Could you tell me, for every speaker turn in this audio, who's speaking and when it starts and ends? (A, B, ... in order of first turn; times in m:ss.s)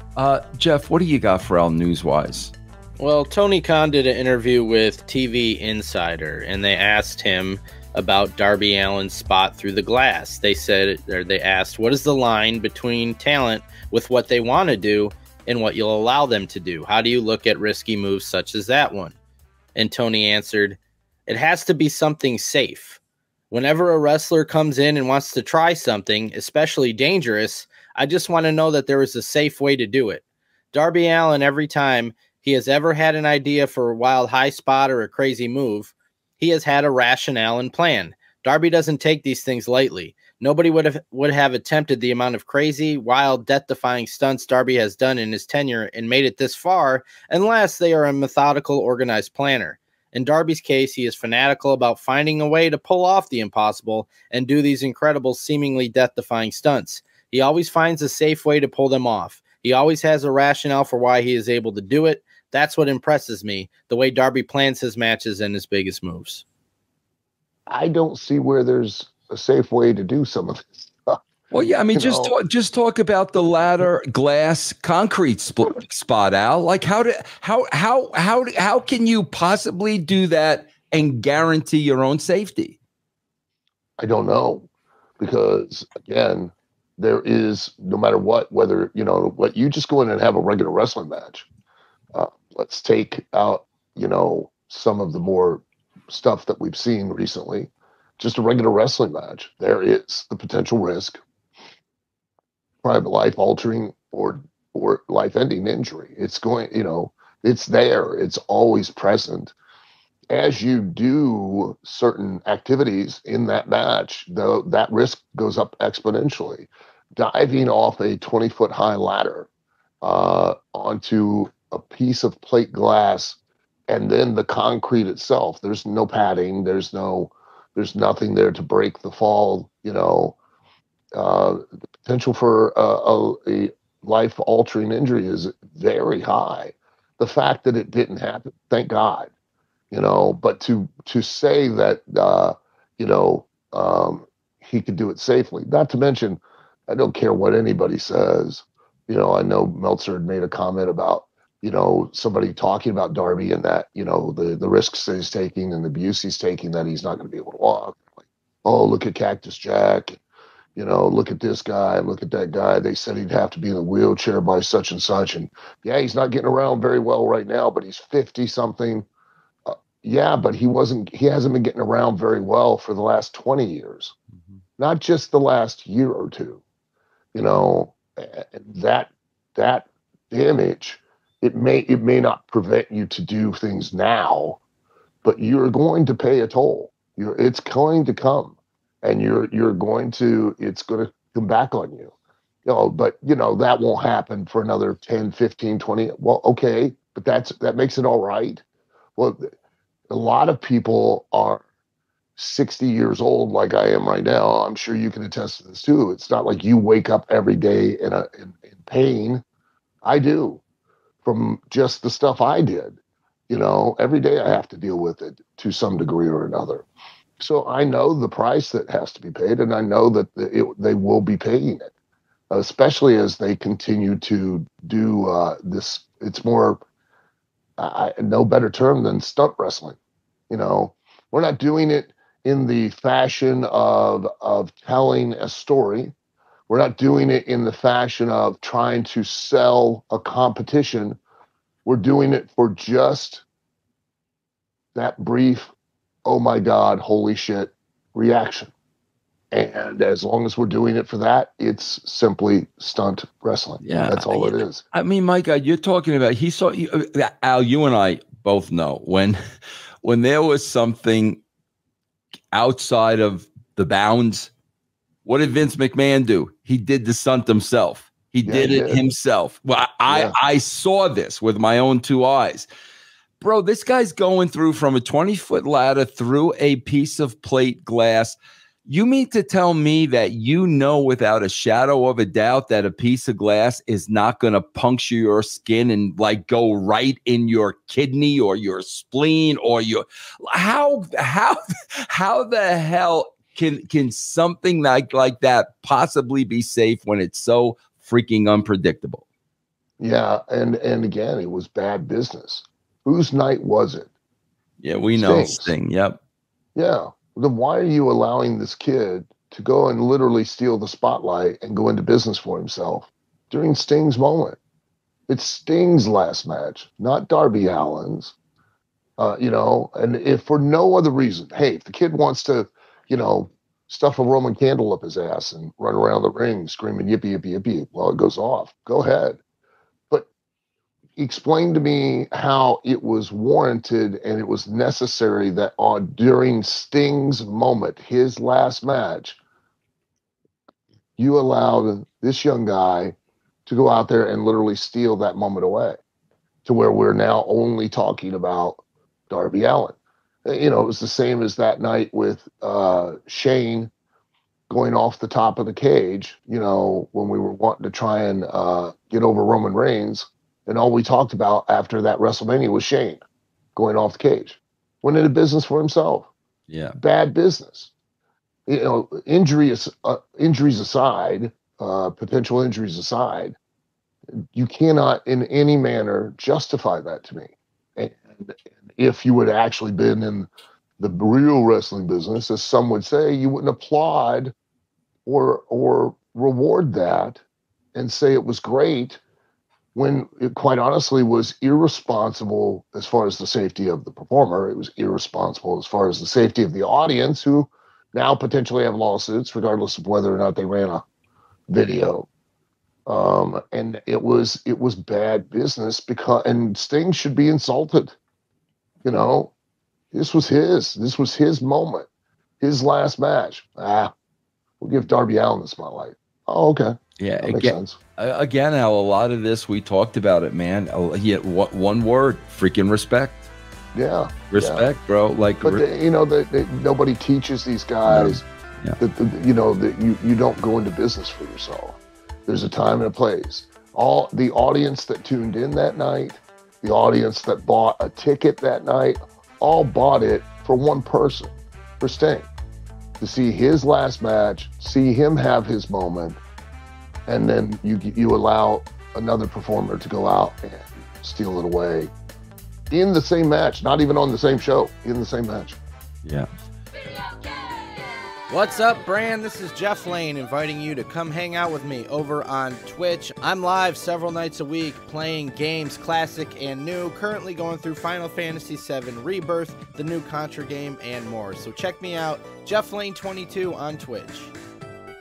0:00.2-0:02.5 A
0:03.0-0:19.2 B
0:19.7-0:23.0 B
0:23.5-1:06.4 B
1:07.7-1:11.2 C
1:11.5-1:22.8 A
1:11.9-1:12.3 C
1:24.0-1:31.5 C
1:32.1-1:41.2 C
1:42.8-1:49.5 C
1:50.3-1:59.5 C
2:00.0-2:10.4 C
2:11.1-2:19.3 C
2:19.9-2:38.1 C
2:38.6-2:40.2 C
2:40.8-2:49.1 C
2:49.6-2:54.1 C
2:54.8-2:56.6 C
2:57.3-3:04.6 C
3:05.2-3:12.1 C
3:12.6-3:18.6 C
3:19.2-3:19.5 C
3:20.1-3:21.6 C
3:22.4-3:29.4 C
3:30.0-3:30.6 C
3:31.2-3:33.0 C
3:33.5-3:36.8 C
3:37.4-3:41.9 C
3:42.5-3:46.8 C
3:47.8-3:50.0 C
3:50.5-3:56.1 C
3:56.7-4:01.2 C
4:01.8-4:03.4 C
4:04.9-4:05.7 C
4:06.2-4:08.7 C
4:09.5-4:14.8 C
4:13.8-4:19.4 A
4:20.0-4:21.4 A
4:22.5-4:24.5 A
4:25.2-4:32.7 A
4:28.4-4:29.0 C
4:30.1-4:30.3 C
4:33.4-4:51.6 A
4:52.1-4:59.2 A
5:00.0-5:04.1 C
5:04.8-5:06.2 A
5:05.1-5:05.7 C
5:06.7-5:14.6 C
5:15.3-5:18.3 C
5:19.2-5:29.4 C
5:31.2-5:39.4 C
5:41.2-5:46.0 C
5:46.6-5:53.9 C
5:54.7-6:03.2 C
6:03.8-6:06.3 C
6:06.7-6:07.0 A
6:07.0-6:07.9 C
6:08.7-6:13.6 C
6:14.3-6:20.5 C
6:21.0-6:24.5 C
6:25.2-6:27.4 C
6:27.9-6:29.2 C
6:29.9-6:41.0 C
6:41.7-6:42.3 C
6:43.1-6:48.2 C
6:49.0-6:49.5 C
6:50.1-6:52.1 C
6:52.6-6:54.1 C
6:54.8-6:58.0 C
6:57.2-7:03.5 A
7:03.9-7:04.8 C
7:04.5-7:05.8 A
7:05.6-7:08.4 C
7:08.0-7:09.0 A
7:09.0-7:22.5 C
7:23.2-7:26.4 C
7:27.3-7:32.1 C
7:32.9-7:35.8 C
7:38.5-7:54.5 B